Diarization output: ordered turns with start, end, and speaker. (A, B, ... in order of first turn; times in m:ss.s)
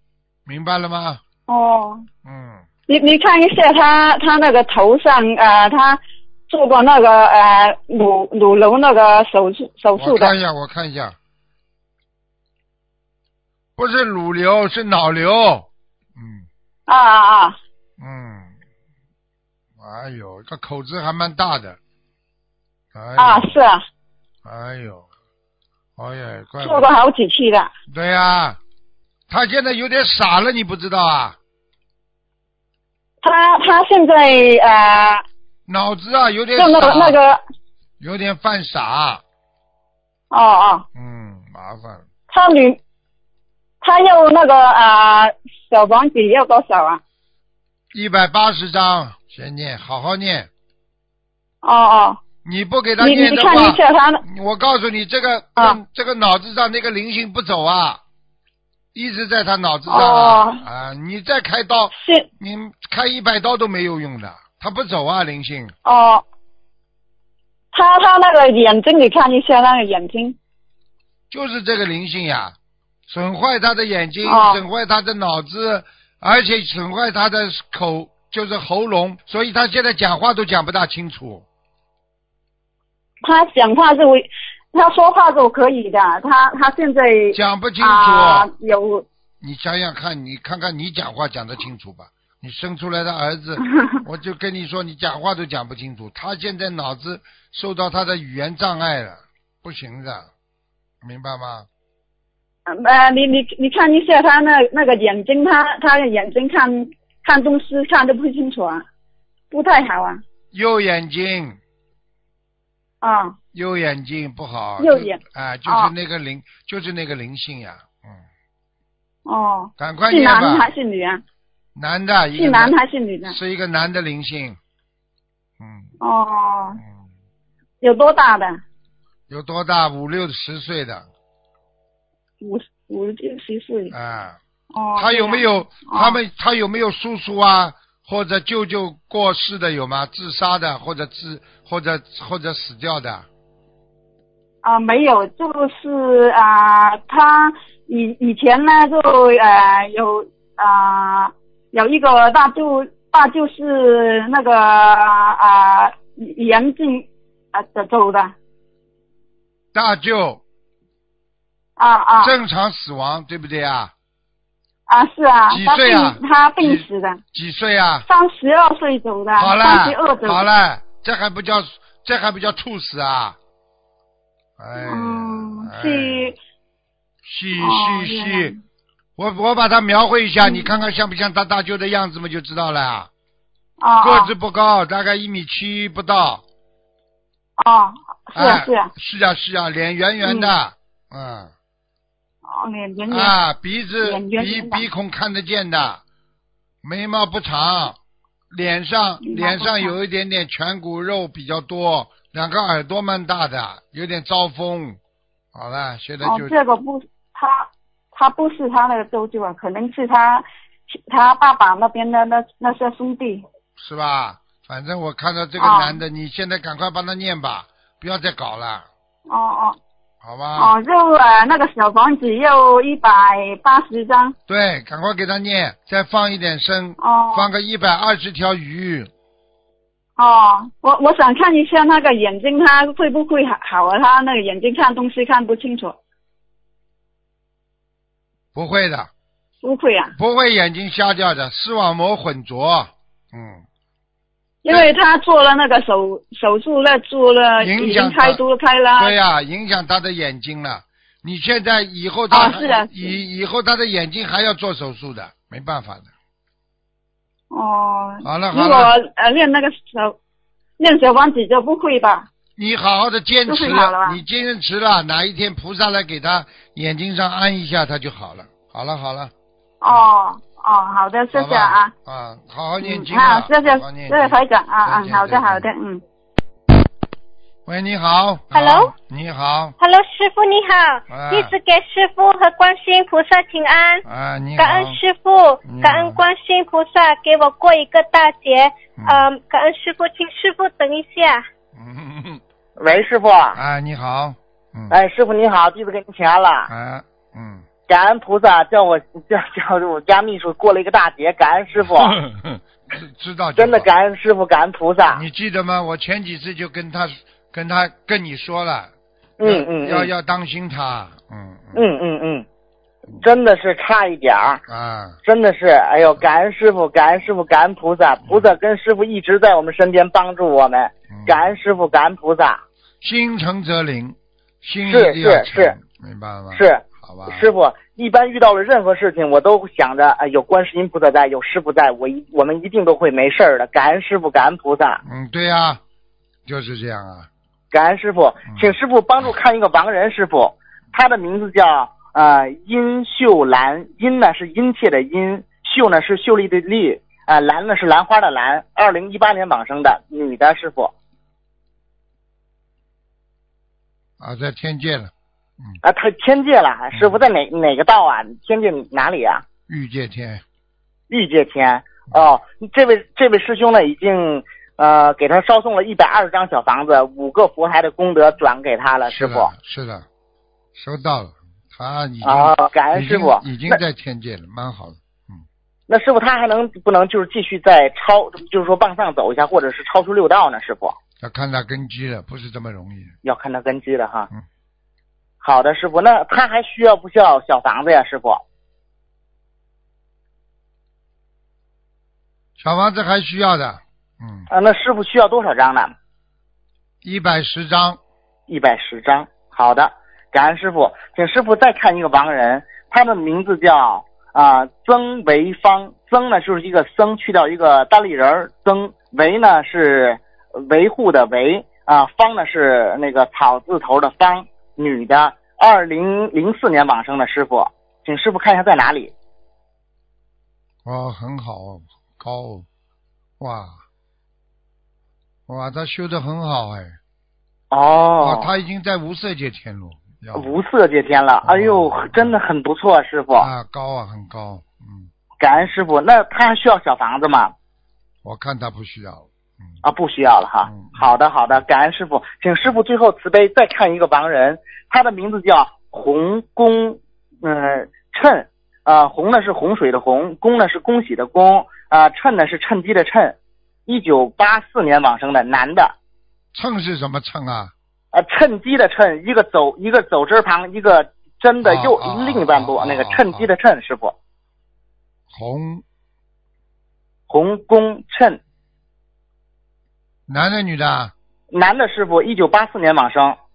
0:00.5-0:01.2 A
0:01.5-0:02.1 B
0:02.2-0:02.6 A
0:02.9-0:10.3 B
0:10.0-0:11.2 A
0:13.8-0:16.5 A
0:16.9-0:17.6 B
0:18.0-0:18.5 A
0:19.8-0:21.8 A
0:22.9-0:23.6 A
0:23.2-0:23.8 B
0:24.4-0:25.1 A
0:26.0-0:26.9 A
0:26.6-0:27.7 B
0:27.9-0:28.6 A
0:29.3-0:31.4 A
0:33.2-0:35.2 B
0:35.7-0:37.2 A
0:36.6-0:37.4 B
0:38.0-0:39.2 A
0:40.3-0:40.9 B
0:41.0-0:42.0 A
0:42.3-0:42.8 B
0:43.8-0:47.0 B
0:47.9-0:50.5 A
0:51.6-0:52.2 B
0:52.4-0:58.0 A
0:53.0-0:54.2 B
0:58.9-1:05.7 A
0:59.9-1:00.6 B
1:02.0-1:02.3 B
1:05.8-1:06.2 B
1:07.7-1:10.4 B
1:11.3-1:12.6 A
1:13.1-1:21.5 A
1:14.2-1:14.6 B
1:23.2-1:29.0 B
1:27.3-1:28.5 A
1:29.4-1:40.3 A
1:41.0-1:41.7 A
1:42.7-1:48.8 B
1:49.5-1:50.2 B
1:50.5-1:51.6 A
1:53.0-1:53.4 B
1:53.5-1:58.2 A
1:54.8-1:55.9 B
1:59.3-2:01.2 B
1:59.8-2:00.7 A
2:01.8-2:02.8 A
2:02.4-2:03.4 B
2:03.3-2:04.6 A
2:05.6-2:05.9 A
2:06.0-2:06.8 B
2:06.8-2:07.0 A
2:07.8-2:08.6 B
2:09.3-2:11.1 A
2:12.4-2:13.9 B
2:13.9-2:14.4 A
2:14.7-2:16.2 B
2:15.0-2:23.3 A
2:24.6-2:38.3 B
2:39.7-2:40.4 A
2:41.8-2:42.3 B
2:42.2-2:43.9 A
2:44.9-2:47.2 B
2:45.5-2:48.1 A
2:48.1-2:50.4 B
2:49.4-2:53.4 A
2:54.6-2:56.3 A
2:54.8-2:56.4 B
2:57.2-2:58.5 A
2:57.6-2:58.6 B
2:59.2-3:03.1 A
3:03.8-3:04.3 B
3:04.0-3:06.4 A
3:07.6-3:08.9 B
3:08.3-3:11.5 A
3:10.2-3:10.5 B
3:12.5-3:13.4 B
3:13.1-3:16.0 A
3:14.0-3:14.8 B
3:16.8-3:18.0 A
3:18.5-3:25.0 A
3:19.2-3:19.9 B
3:25.5-3:26.6 A
3:26.2-3:33.4 B
3:33.8-3:38.9 A
3:35.6-3:36.0 B
3:39.3-3:39.8 B
3:40.2-3:40.8 A
3:40.6-3:44.4 B
3:44.5-3:49.1 A
3:47.0-3:47.5 B
3:50.2-3:56.0 B
3:58.6-3:59.1 A
3:59.6-4:00.1 B
4:00.2-4:03.6 A
4:04.6-4:09.2 B
4:07.6-4:08.4 A
4:09.0-4:16.1 A
4:12.3-4:13.1 B
4:17.5-4:20.2 B
4:18.2-4:18.9 A
4:20.8-4:22.3 B
4:22.6-4:29.3 A
4:23.5-4:24.2 B
4:29.8-4:31.9 B
4:31.3-4:35.7 A
4:32.8-4:36.0 B
4:37.7-4:39.8 A
4:38.5-4:38.9 C
4:39.8-4:44.0 C
4:41.1-4:41.5 A
4:44.1-4:45.0 A
4:44.6-4:51.4 C
4:45.6-4:46.2 A
4:49.0-4:49.2 A
4:51.8-4:52.4 A
4:52.8-4:53.6 D
4:53.5-4:55.0 A
4:54.9-4:56.7 D
4:56.7-4:57.7 A
4:57.9-5:02.2 D
5:01.8-5:03.9 A
5:03.6-5:05.2 D
5:05.1-5:11.9 A
5:09.4-5:10.1 D
5:11.7-5:12.5 D
5:13.2-5:14.6 D
5:14.7-5:15.2 A
5:15.2-5:22.6 D
5:21.1-5:21.6 A
5:23.0-5:27.5 A
5:24.9-5:25.8 D
5:26.5-5:35.0 D
5:35.0-5:35.8 A
5:36.5-5:37.3 A
5:37.7-5:50.9 D
5:54.2-5:55.8 A
5:55.8-5:59.4 D
5:56.9-5:57.2 A
5:59.7-6:00.4 A
6:01.1-6:09.5 D
6:09.1-6:10.1 A
6:10.8-6:15.4 A
6:12.2-6:13.8 D
6:15.9-6:21.0 D
6:21.2-6:23.2 A
6:23.2-6:24.3 D
6:25.4-6:28.4 D
6:32.6-6:34.5 A
6:34.5-6:35.9 D
6:37.0-6:38.0 A
6:38.5-6:59.1 D
7:00.8-7:02.7 A
7:03.4-7:03.8 A
7:05.5-7:07.0 A
7:07.7-7:08.5 D
7:08.2-7:10.6 A
7:10.4-7:13.5 D
7:11.4-7:12.4 A
7:13.4-7:15.1 A
7:15.4-7:17.5 D
7:18.2-7:19.8 A
7:19.8-7:33.4 D
7:20.6-7:21.1 A
7:33.9-7:35.9 D
7:36.5-7:37.7 A
7:38.1-7:44.1 D
7:41.6-7:43.5 A
7:45.3-7:45.8 A
7:47.3-7:48.4 D
7:50.3-7:51.1 A
7:51.5-7:53.4 D